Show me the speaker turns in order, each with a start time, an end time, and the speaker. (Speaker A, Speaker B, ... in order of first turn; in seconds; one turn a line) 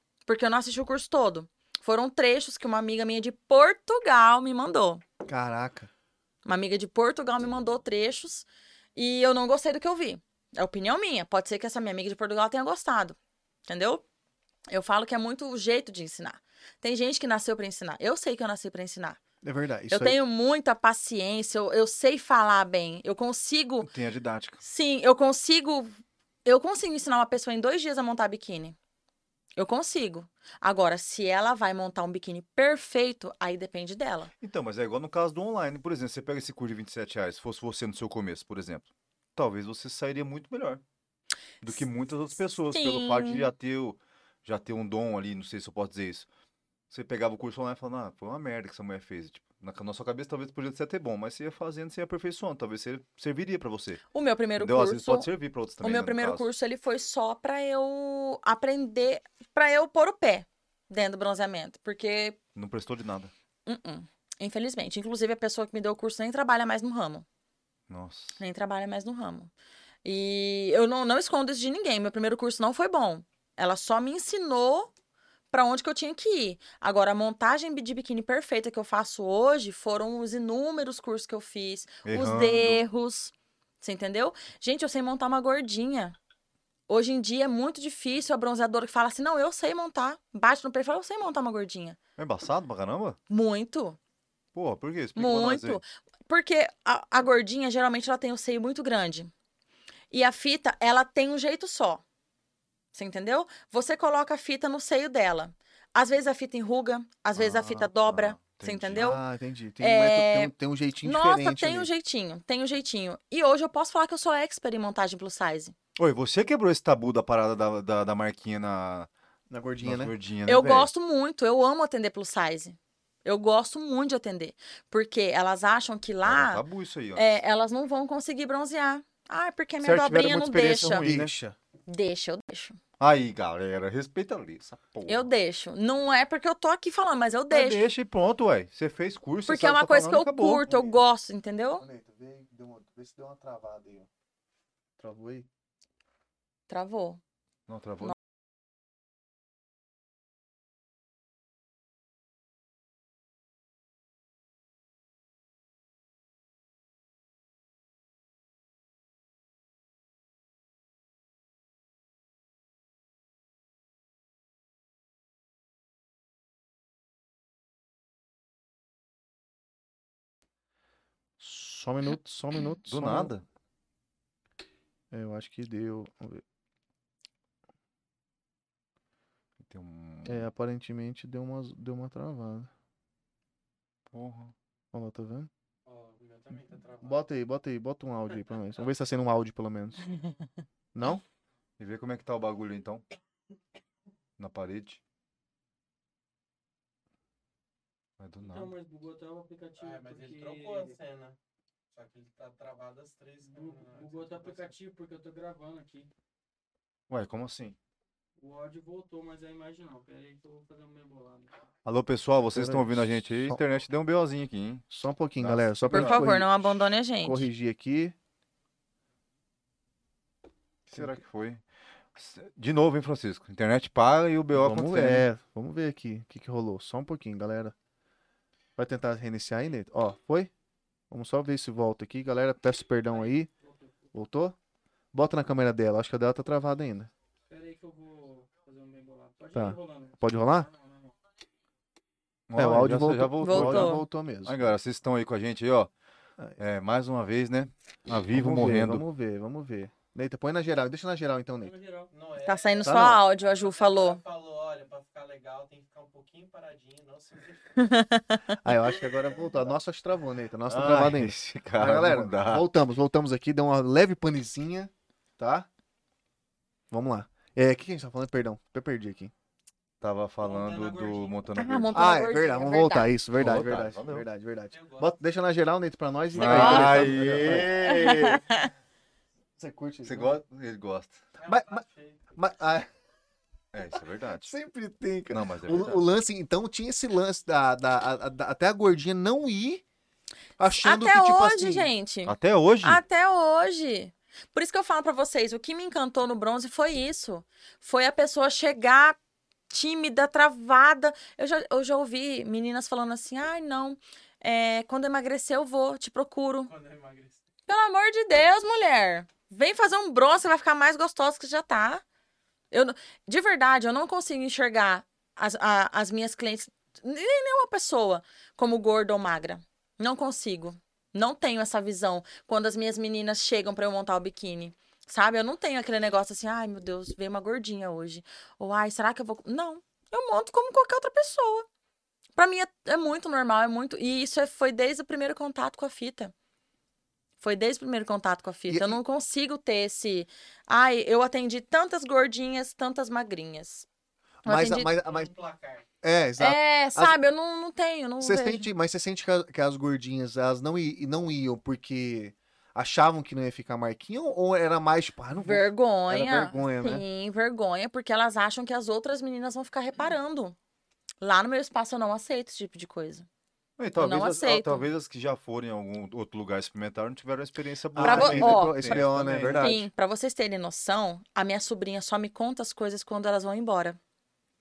Speaker A: 0.2-5.0
Speaker B: 5.2-5.9
Speaker A: 6.4-13.2
Speaker A: 13.7-14.0
Speaker A: 14.7-19.2
Speaker B: 19.4-20.2
Speaker A: 19.9-23.9
Speaker C: 23.8-24.6
Speaker A: 24.6-25.9
Speaker A: 26.4-28.8
Speaker A: 29.6-34.3
Speaker C: 34.4-40.8
Speaker C: 41.6-46.3
Speaker A: 42.7-43.5
Speaker C: 46.9-54.0
Speaker A: 54.1-62.4
Speaker C: 54.6-56.5
Speaker C: 62.5-63.3
Speaker A: 63.6-67.2
Speaker C: 67.9-68.4
Speaker A: 68.4-69.5
Speaker A: 70.0-74.9
Speaker A: 75.5-86.2
Speaker C: 82.0-82.8
Speaker A: 86.9-92.0
Speaker C: 92.2-93.2
Speaker A: 93.3-94.0
Speaker C: 94.5-95.8
Speaker A: 95.1-99.3
Speaker A: 100.1-102.0
Speaker A: 102.9-109.2
Speaker C: 107.3-109.2
Speaker B: 109.0-111.9
Speaker A: 109.8-115.7
Speaker C: 116.0-119.1
Speaker B: 119.5-120.1
Speaker C: 119.8-120.9
Speaker A: 120.5-126.6
Speaker C: 126.2-127.4
Speaker A: 127.1-131.1
Speaker C: 129.8-131.3
Speaker B: 131.0-131.6
Speaker A: 131.9-132.8
Speaker C: 133.0-135.3
Speaker A: 135.1-137.8
Speaker C: 137.5-140.9
Speaker A: 139.5-141.8
Speaker B: 141.8-144.1
Speaker B: 145.0-145.5
Speaker A: 146.7-147.2
Speaker C: 147.7-148.1
Speaker B: 171.4-173.3
Speaker C: 172.9-173.4
Speaker B: 175.1-176.4
Speaker C: 179.6-180.5
Speaker B: 180.2-182.7
Speaker C: 184.1-184.5
Speaker B: 184.9-185.5
Speaker D: 185.8-187.2
Speaker B: 187.0-190.0
Speaker B: 190.9-191.2
Speaker C: 191.8-193.0
Speaker C: 194.4-195.0
Speaker C: 198.2-198.7
Speaker E: 198.4-201.0
Speaker D: 199.8-201.4
Speaker D: 201.9-204.8
Speaker E: 203.5-206.1
Speaker C: 207.1-207.8
Speaker E: 208.4-211.7
Speaker C: 211.8-214.8
Speaker B: 212.5-213.6
Speaker B: 214.9-218.1
Speaker C: 215.4-216.3
Speaker A: 215.9-217.5
Speaker C: 220.9-221.6
Speaker B: 220.9-221.2
Speaker C: 222.1-225.3
Speaker B: 224.5-227.7
Speaker B: 228.8-230.5
Speaker B: 231.1-233.5
Speaker E: 233.1-234.1
Speaker B: 234.1-234.6
Speaker B: 235.1-237.1
Speaker E: 237.5-241.2
Speaker B: 239.5-240.7
Speaker C: 242.5-245.9
Speaker B: 242.6-244.7
Speaker A: 243.4-244.0
Speaker C: 246.6-249.0
Speaker B: 248.3-251.7
Speaker E: 251.6-252.1
Speaker D: 252.1-258.0
Speaker A: 252.4-254.2
Speaker B: 252.8-253.2
Speaker A: 257.8-258.4
Speaker B: 258.6-265.7
Speaker D: 258.7-259.5
Speaker C: 260.7-262.6
Speaker B: 266.9-269.3
Speaker C: 270.0-272.0
Speaker D: 270.4-271.5
Speaker A: 271.5-273.1
Speaker B: 271.9-278.1
Speaker C: 273.3-274.2
Speaker D: 274.7-275.1
Speaker C: 276.3-278.4
Speaker A: 276.4-278.7
Speaker B: 279.6-280.4
Speaker C: 280.0-281.2
Speaker D: 281.4-282.2
Speaker B: 281.4-282.9
Speaker C: 283.7-284.5
Speaker B: 284.4-289.8
Speaker C: 285.3-286.0
Speaker B: 290.6-291.9
Speaker A: 290.7-299.2
Speaker C: 292.2-293.0
Speaker A: 299.7-306.7
Speaker D: 306.6-307.4
Speaker A: 307.7-312.0
Speaker A: 312.7-331.6
Speaker A: 332.4-336.3
Speaker A: 337.4-343.9
Speaker B: 338.7-339.0
Speaker B: 344.4-345.3
Speaker A: 344.4-344.9
Speaker D: 344.9-345.8
Speaker B: 346.0-347.2
Speaker A: 346.4-348.7
Speaker B: 348.2-357.0
Speaker A: 355.4-360.5
Speaker A: 361.2-363.2
Speaker C: 363.8-369.8
Speaker A: 364.0-364.9
Speaker B: 367.9-369.9
Speaker A: 368.0-374.0